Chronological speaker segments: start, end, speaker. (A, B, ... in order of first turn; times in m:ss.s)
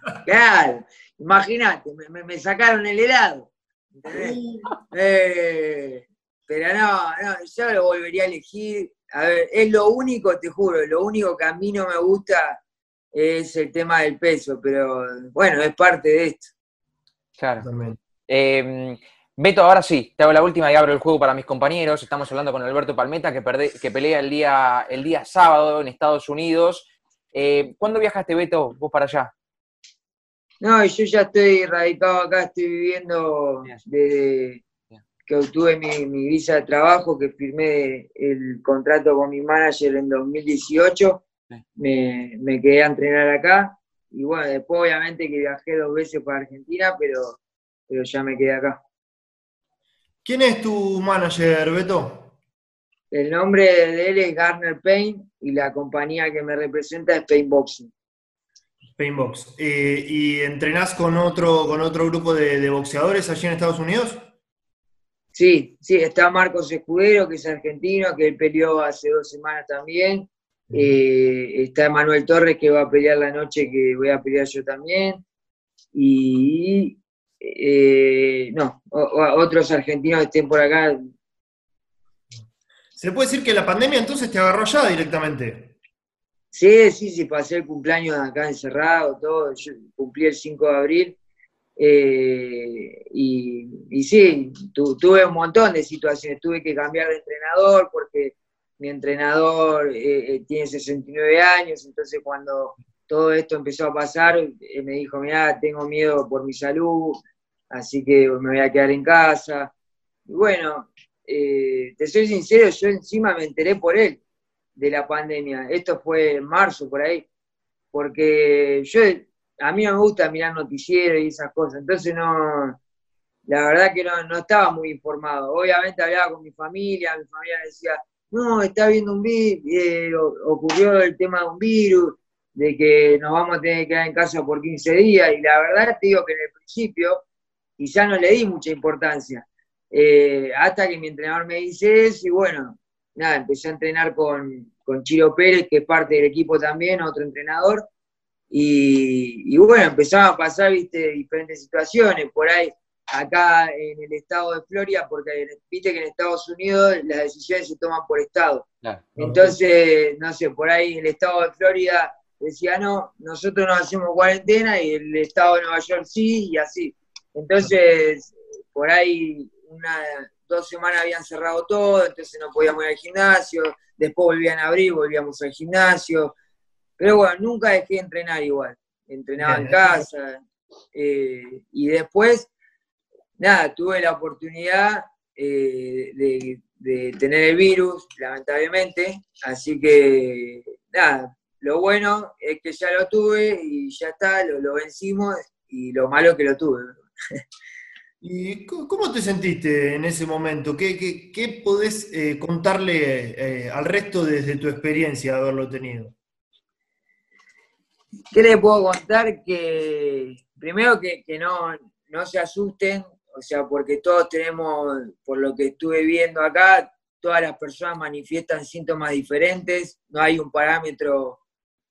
0:00.2-0:04.4 A
0:04.1-0:04.7 B
0:04.9-0:12.6 A
0:13.1-0:16.5 A
0:17.4-0:17.6 C
0:17.6-0:18.0 B
0:18.3-0:29.3 C
0:30.6-0:34.6 A
0:35.2-0:41.2 A
0:41.8-0:48.8 A
0:50.2-0:52.3 B
0:53.1-0:57.9 A
0:59.0-1:04.2 B
1:05.3-1:15.2 A
1:10.7-1:10.9 B
1:15.9-1:21.1 A
1:23.0-1:25.7 B
1:26.5-1:31.2 A
1:31.8-1:49.7 A
1:50.3-1:54.2 A
1:54.8-1:57.2 A
1:57.9-2:02.8 A
2:03.5-2:17.2 A
2:17.8-2:27.8 A
2:28.5-2:56.3 A
2:39.2-2:39.5 B
2:57.0-3:02.5 A
2:59.4-3:00.0 B
3:03.4-3:17.0 A
3:18.2-3:26.1 B
3:28.3-3:41.4 A